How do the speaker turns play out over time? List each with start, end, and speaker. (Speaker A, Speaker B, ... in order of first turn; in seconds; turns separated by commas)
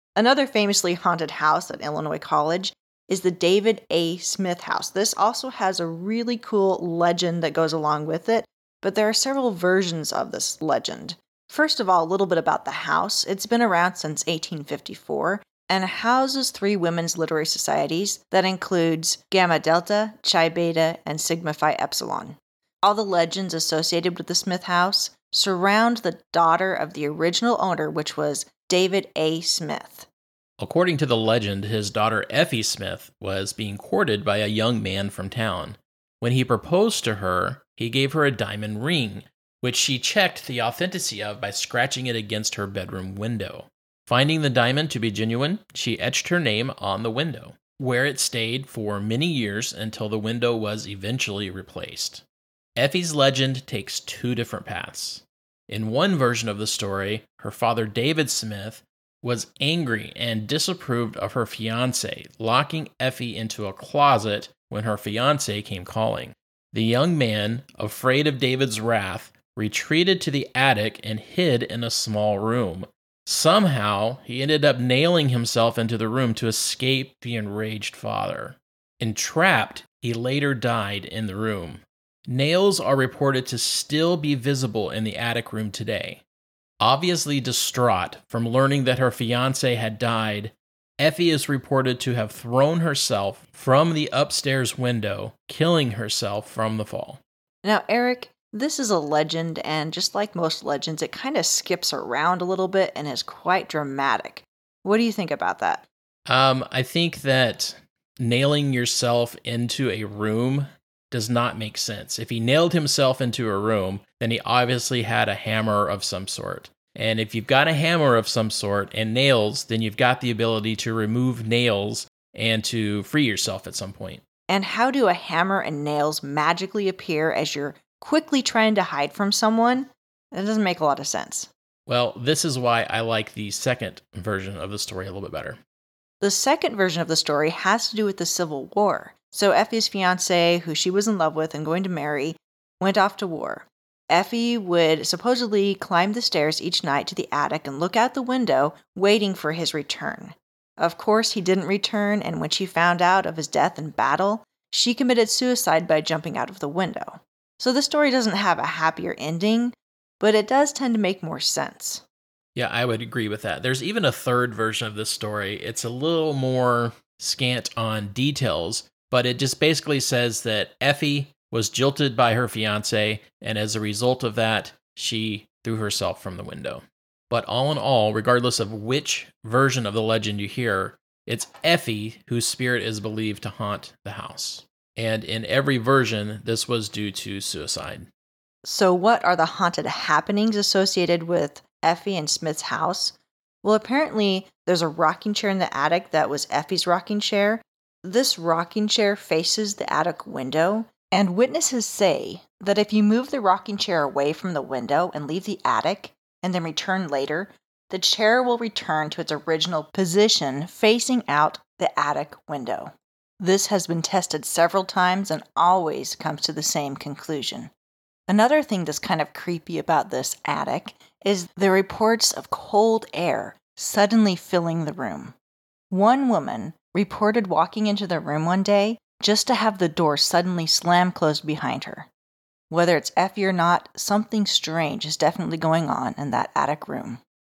Speaker A: 0.1-30.1, Speaker B: 30.6-52.2, Speaker B: 52.8-86.2, Speaker B: 86.8-97.2, Speaker A: 97.6-105.8, Speaker B: 106.3-124.2, Speaker A: 124.5-131.5, Speaker B: 131.9-135.6, Speaker A: 136.2-162.0, Speaker B: 162.5-188.1, Speaker A: 188.6-217.7, Speaker A: 218.3-225.3, Speaker A: 225.9-232.1, Speaker A: 232.7-237.2